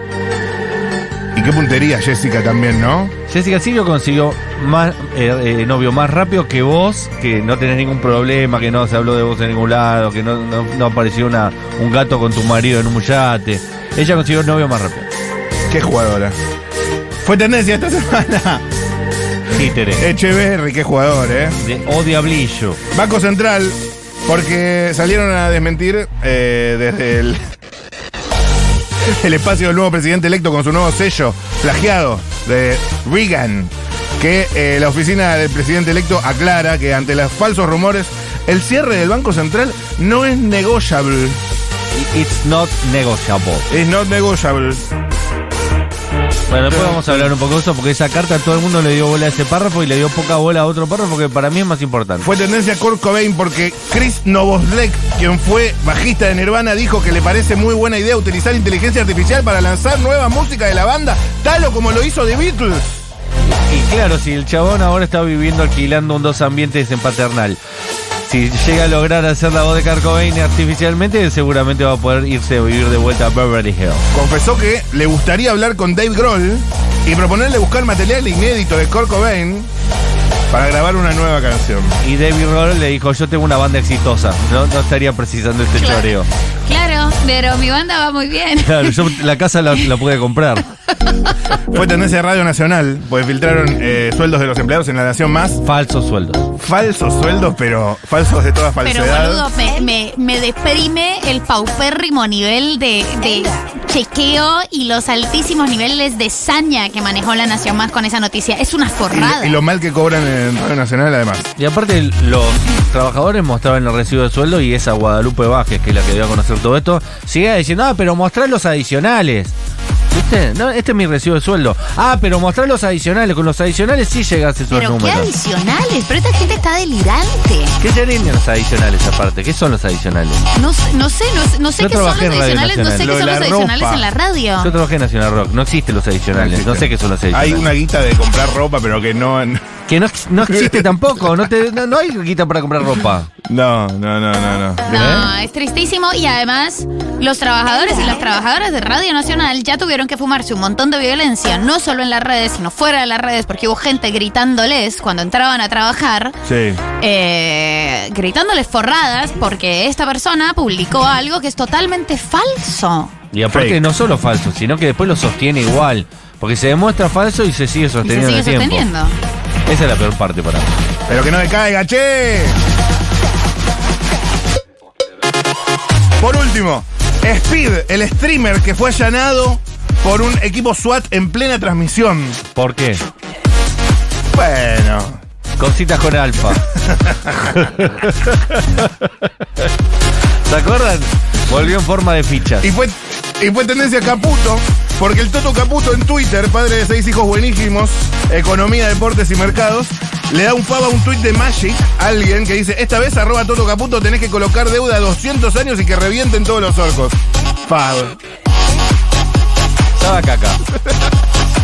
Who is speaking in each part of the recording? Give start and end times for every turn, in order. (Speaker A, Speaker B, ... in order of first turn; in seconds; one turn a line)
Speaker A: 1.3-3.1
Speaker B: 3.3-15.1
Speaker A: 15.7-16.4
Speaker A: 17.2-18.6
Speaker B: 19.5-20.1
Speaker A: 20.0-21.6
Speaker B: 21.6-22.8
Speaker A: 22.9-27.5
Speaker A: 29.0-41.4
Speaker B: 41.9-43.7
Speaker A: 43.7-44.9
Speaker B: 46.5-52.3
Speaker A: 46.7-47.3
Speaker A: 52.2-63.0
Speaker B: 63.5-67.6
Speaker B: 68.2-74.0
Speaker A: 74.1-79.7
Speaker A: 80.5-82.0
Speaker B: 82.0-86.3
Speaker C: 85.7-89.0
Speaker B: 88.6-90.6
Speaker A: 91.7-95.6
Speaker B: 95.6-96.5
Speaker A: 96.6-99.5
Speaker C: 98.8-109.6
Speaker A: 109.1-111.5
Speaker B: 111.6-119.5
Speaker B: 120.1-125.3
Speaker C: 124.7-127.7
Speaker B: 127.8-130.4
Speaker C: 130.5-134.7
Speaker B: 131.8-133.1
Speaker A: 132.9-134.1
Speaker B: 134.6-137.6
Speaker A: 136.4-139.7
Speaker B: 139.9-143.3
Speaker A: 140.4-140.9
Speaker A: 143.4-145.1
Speaker B: 144.9-145.2
Speaker C: 144.9-156.3
Speaker A: 156.4-156.8
Speaker C: 157.0-163.1
Speaker B: 163.3-168.8
Speaker A: 163.5-163.8
Speaker C: 168.0-169.1
Speaker B: 169.7-170.7
Speaker A: 171.1-172.6
Speaker A: 176.2-182.4
Speaker B: 182.5-183.0
Speaker A: 184.3-185.2
Speaker B: 185.6-186.6
Speaker A: 186.8-187.6
Speaker B: 187.5-189.0
Speaker B: 190.5-192.7
Speaker A: 192.6-208.2
Speaker B: 209.9-210.6